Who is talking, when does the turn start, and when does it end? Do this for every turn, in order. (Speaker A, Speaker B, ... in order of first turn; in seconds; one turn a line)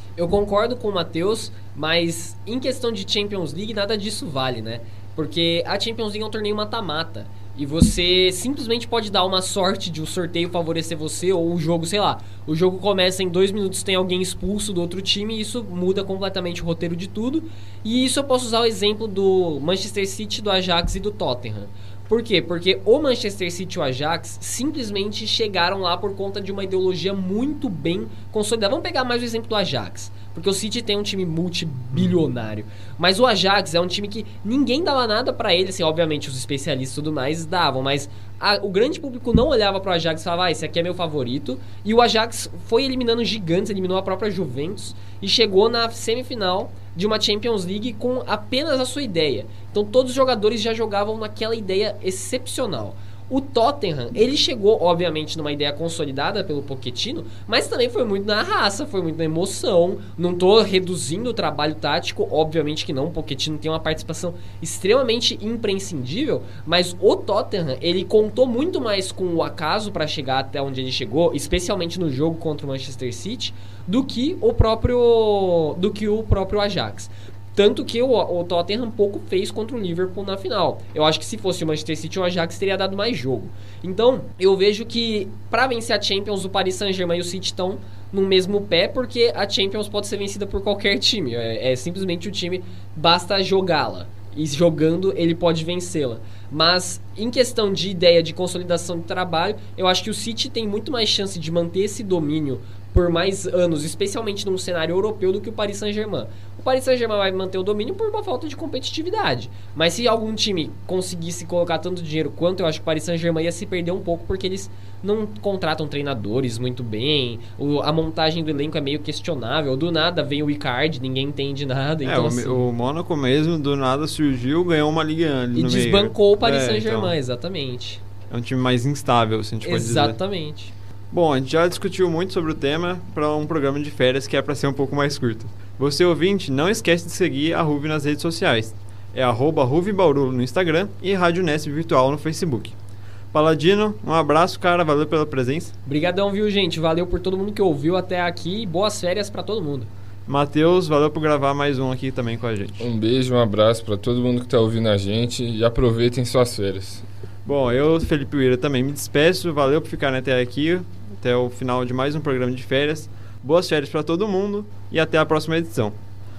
Speaker A: 0.2-122.7
Speaker B: 122.0-127.2
Speaker A: 125.5-128.0
Speaker B: 128.3-130.2
Speaker A: 129.6-130.7
Speaker B: 131.1-142.8
Speaker B: 143.3-145.7
Speaker A: 145.9-149.9
Speaker B: 150.3-152.9
Speaker C: 152.8-157.1
Speaker B: 157.4-166.0